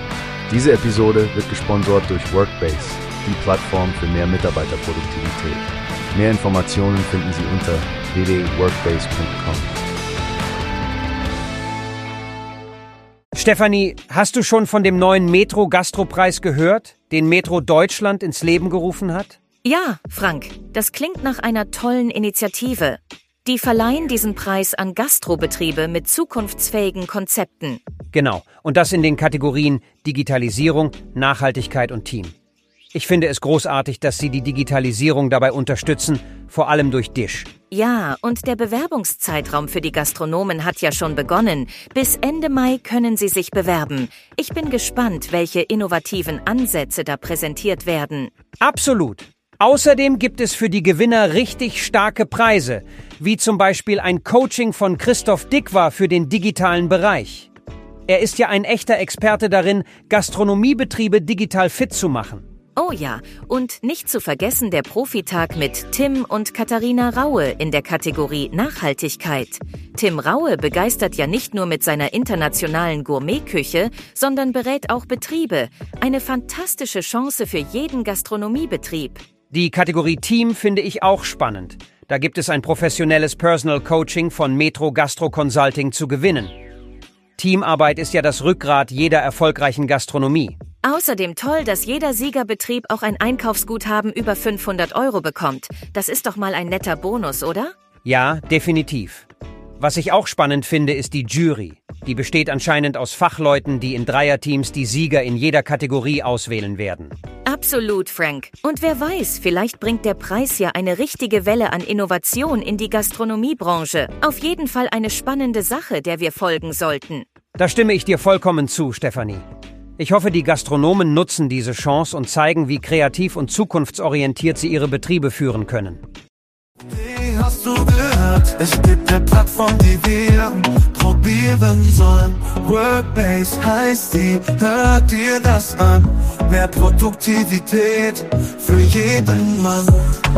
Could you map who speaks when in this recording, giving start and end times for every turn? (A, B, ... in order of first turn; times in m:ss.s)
0:00.5-0:09.9 A
0:13.3-0:19.4 B
0:19.6-0:27.8 C
0:28.1-0:32.3 B
0:32.9-0:37.5 B
0:37.7-0:48.3 C
0:48.6-0:57.5 B
0:58.1-1:02.4 B
1:02.8-1:19.2 C
1:19.5-1:26.5 B
1:27.4-1:30.6 B
1:30.8-1:37.7 C
1:38.0-1:39.3 B
1:39.8-1:47.2 B
1:47.5-1:57.3 C
1:57.6-1:59.4 B
2:00.0-2:06.0 B
2:06.9-2:20.2 D